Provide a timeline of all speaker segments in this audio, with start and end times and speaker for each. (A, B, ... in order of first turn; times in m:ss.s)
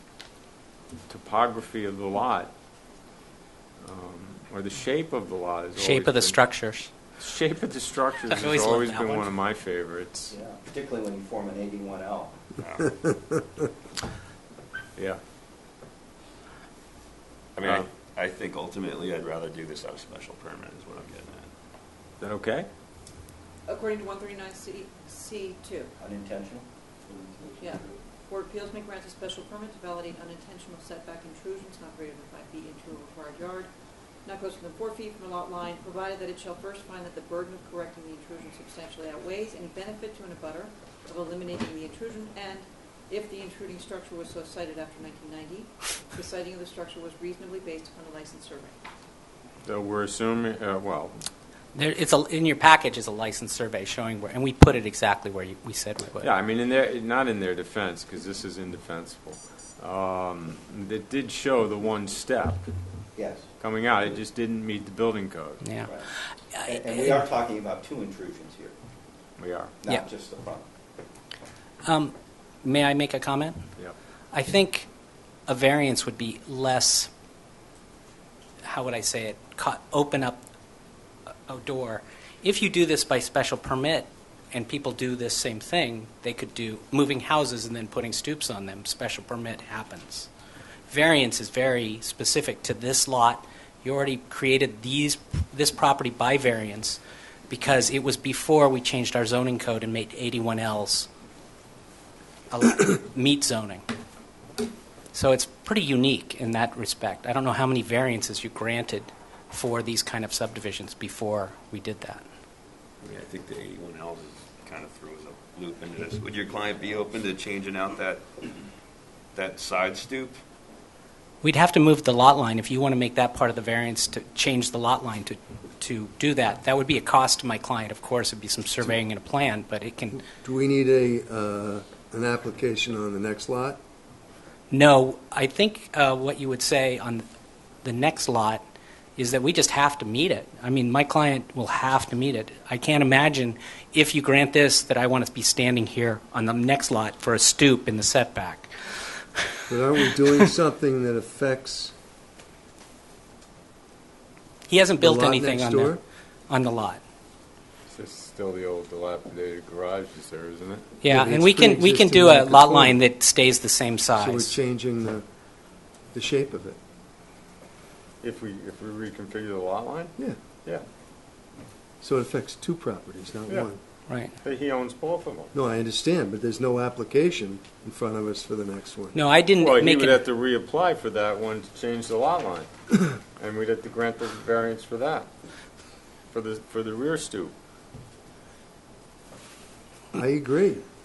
0:01.1-0:02.5 A
0:03.8-0:06.4 A
0:05.8-0:06.9 B
0:07.2-0:10.3 A
0:08.3-0:09.3 B
0:10.3-0:12.4 C
0:12.6-0:13.1 D
0:17.6-0:21.5 D
0:22.2-0:22.7 A
0:23.7-0:25.9 E
0:26.0-0:27.5 C
0:27.6-0:48.8 E
0:49.6-0:51.1 A
0:51.7-0:56.3 B
0:56.2-1:02.6 A
1:03.2-1:03.5 C
1:03.6-1:05.6 A
1:05.6-1:06.0 B
1:06.5-1:07.2 B
1:06.6-1:08.8 C
1:09.4-1:09.8 A
1:09.8-1:10.6 C
1:11.8-1:13.6 B
1:14.3-1:14.9 B
1:15.5-1:17.1 B
1:18.6-1:20.4 B
1:21.5-1:30.3 B
1:30.9-1:41.1 B
1:42.5-1:43.8 B
1:45.1-1:52.3 B
1:53.0-1:58.5 D
1:59.3-2:00.4 D
2:01.4-2:10.2 B
2:10.2-2:13.8 F
2:14.7-2:17.2 B
2:17.8-2:18.6 B
2:19.2-2:29.6 B
2:29.7-2:31.9 F
2:34.7-2:37.0 B
2:35.0-2:36.0 F
2:37.9-2:40.8 A
2:41.0-2:44.6 B
2:41.1-2:43.0 F
2:44.2-2:45.2 F
2:46.1-2:46.8 F
2:48.2-2:50.8 A
2:52.0-2:53.8 F
2:54.1-2:54.4 B
2:54.4-2:55.5 A
2:55.5-2:59.2 F
2:59.1-3:00.2 B
2:59.6-3:02.7 A
3:03.4-3:05.3 A
3:06.3-3:07.5 A
3:10.1-3:10.8 F